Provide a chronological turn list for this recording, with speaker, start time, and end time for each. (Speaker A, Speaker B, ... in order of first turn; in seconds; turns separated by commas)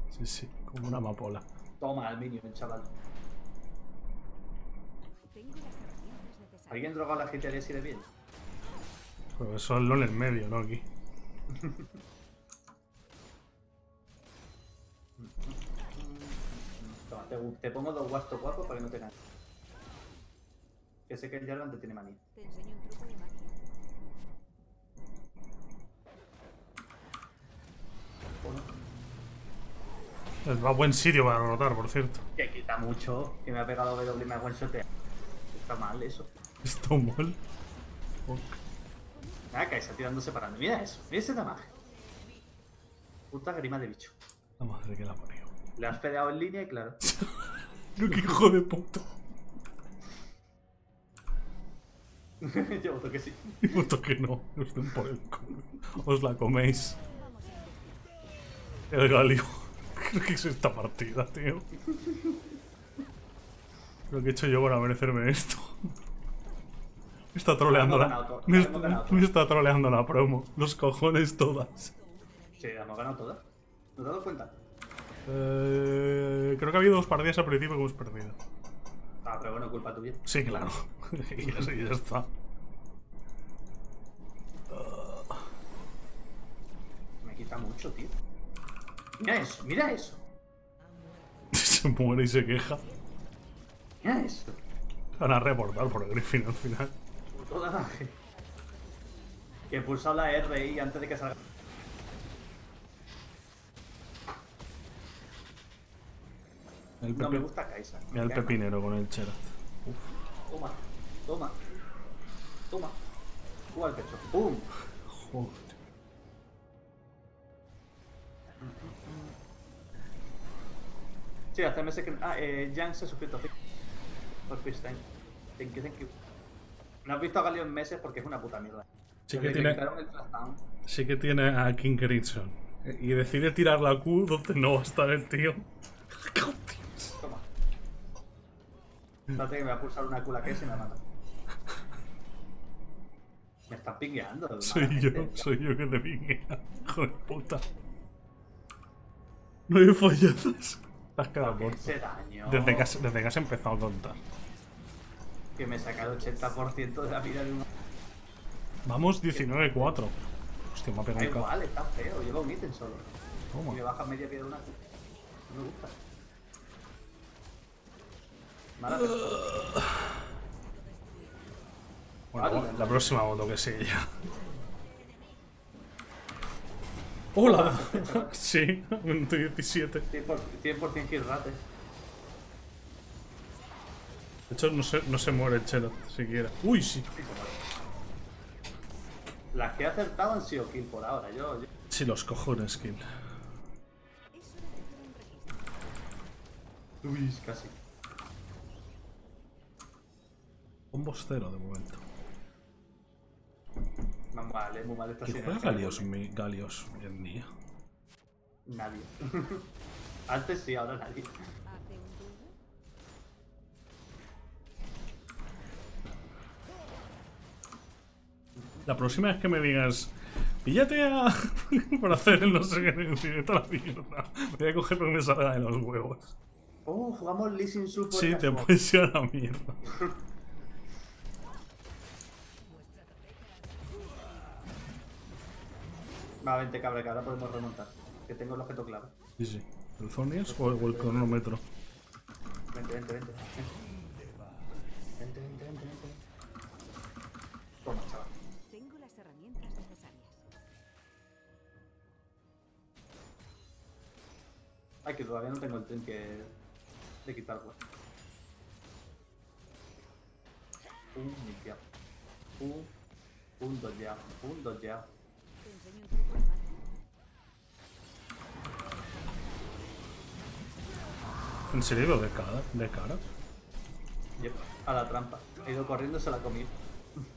Speaker A: 0.1-1.5, Speaker B: 1.8-2.9, Speaker C: 5.1-7.5, Speaker B: 6.7-8.1, Speaker A: 9.4-10.9, Speaker B: 11.5-11.9, Speaker B: 15.2-19.1, Speaker B: 21.1-22.2, Speaker C: 22.4-23.6, Speaker B: 28.4-28.7, Speaker A: 30.4-32.2, Speaker B: 32.4-34.9, Speaker B: 35.5-36.3, Speaker A: 36.6-37.4, Speaker A: 38.3-38.6, Speaker C: 39.1-40.0, Speaker B: 39.5-41.7, Speaker B: 43.3-44.1, Speaker A: 44.6-45.5, Speaker B: 45.8-47.0, Speaker A: 47.0-49.1, Speaker B: 52.4-53.9, Speaker A: 53.6-57.0, Speaker C: 57.0-58.1, Speaker A: 58.9-61.7, Speaker B: 61.8-62.5, Speaker A: 64.1-66.0, Speaker A: 67.3-72.0, Speaker B: 67.7-69.3, Speaker B: 72.6-73.5, Speaker B: 74.0-74.6, Speaker A: 75.3-78.4, Speaker B: 79.2-80.2, Speaker A: 80.2-82.3, Speaker A: 84.7-85.5, Speaker B: 87.2-88.2, Speaker B: 89.2-90.2, Speaker A: 91.5-92.8, Speaker B: 94.0-94.6, Speaker A: 95.2-97.0, Speaker B: 97.3-98.2, Speaker C: 98.2-100.0, Speaker B: 99.7-101.4, Speaker A: 107.0-107.5, Speaker B: 107.1-108.6, Speaker A: 108.1-110.1, Speaker B: 110.5-111.6, Speaker B: 112.7-113.0, Speaker B: 113.7-114.7, Speaker A: 115.1-115.8, Speaker B: 118.6-119.4, Speaker B: 121.5-123.5, Speaker B: 124.5-126.2, Speaker B: 127.0-130.6, Speaker A: 129.3-129.8, Speaker A: 130.8-137.2, Speaker B: 137.2-137.5, Speaker B: 139.3-141.0, Speaker B: 143.7-145.5, Speaker A: 144.6-147.6, Speaker C: 146.7-148.1, Speaker A: 149.7-154.2, Speaker B: 151.4-153.0, Speaker B: 155.6-157.7, Speaker A: 158.8-160.2, Speaker B: 159.3-160.0, Speaker A: 160.7-161.5, Speaker B: 161.2-163.1, Speaker A: 163.5-163.8, Speaker B: 163.7-164.8, Speaker B: 165.5-166.0, Speaker B: 168.8-169.4, Speaker A: 168.9-170.2, Speaker A: 172.3-174.2, Speaker B: 172.4-173.2, Speaker A: 177.3-180.1, Speaker B: 177.4-178.3, Speaker B: 180.1-181.6, Speaker A: 184.5-187.1, Speaker B: 187.2-187.6, Speaker B: 189.5-191.7, Speaker A: 191.9-193.0, Speaker C: 194.3-196.1, Speaker B: 197.0-197.8, Speaker A: 200.9-202.0, Speaker B: 204.3-206.1, Speaker A: 205.2-207.5, Speaker B: 208.7-209.7, Speaker B: 210.3-211.4, Speaker C: 211.7-212.6, Speaker B: 218.6-219.2, Speaker A: 218.9-226.3, Speaker B: 226.9-228.7, Speaker A: 228.1-229.9, Speaker B: 229.8-230.2, Speaker C: 233.6-234.3, Speaker B: 236.4-239.1, Speaker A: 239.4-241.6, Speaker B: 240.5-241.4, Speaker B: 242.7-243.7, Speaker B: 245.2-246.2, Speaker B: 247.8-248.3, Speaker C: 248.7-250.5, Speaker B: 255.1-256.5, Speaker B: 257.2-257.8, Speaker B: 261.1-261.8, Speaker B: 262.6-262.9, Speaker B: 263.6-265.1, Speaker C: 265.6-266.9, Speaker A: 271.7-273.2, Speaker B: 274.4-277.2